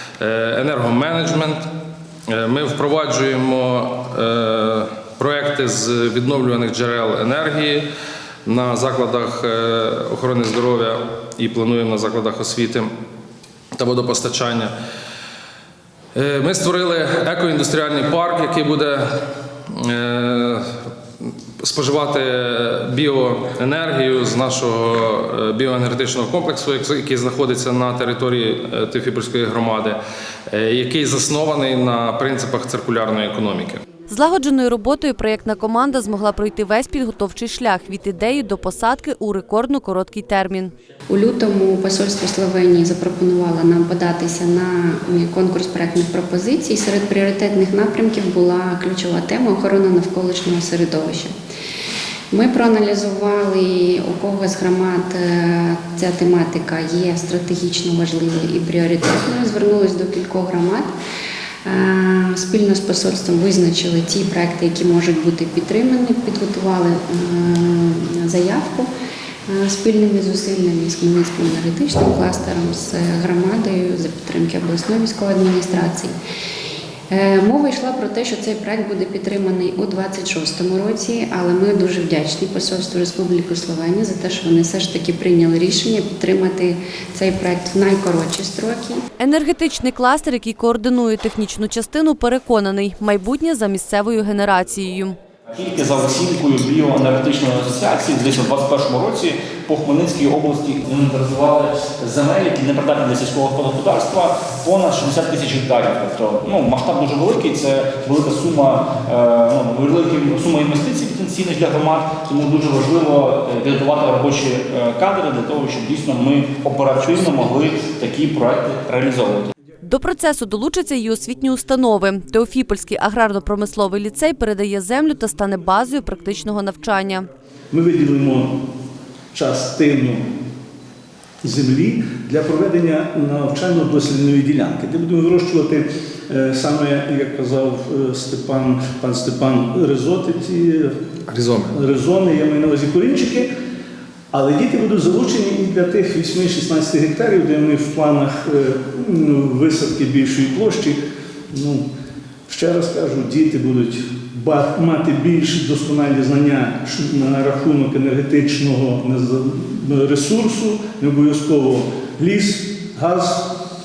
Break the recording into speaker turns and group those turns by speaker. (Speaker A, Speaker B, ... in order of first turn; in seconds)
Speaker A: 0.2-1.6, 2.3-7.8, 8.4-12.9, 13.8-14.7, 16.1-19.1, 19.7-20.7, 21.2-30.0, 30.5-33.8, 141.3-141.7
Speaker B: 34.1-40.7, 89.2-95.2, 119.8-127.3
Speaker C: 41.1-51.3, 52.3-60.9, 61.6-68.9, 69.5-76.1, 77.1-89.0
Speaker D: 95.5-119.5
Speaker E: 127.7-128.6, 129.3-130.2, 131.4-140.9, 141.7-143.5, 144.3-151.0, 151.5-151.8, 152.5-163.5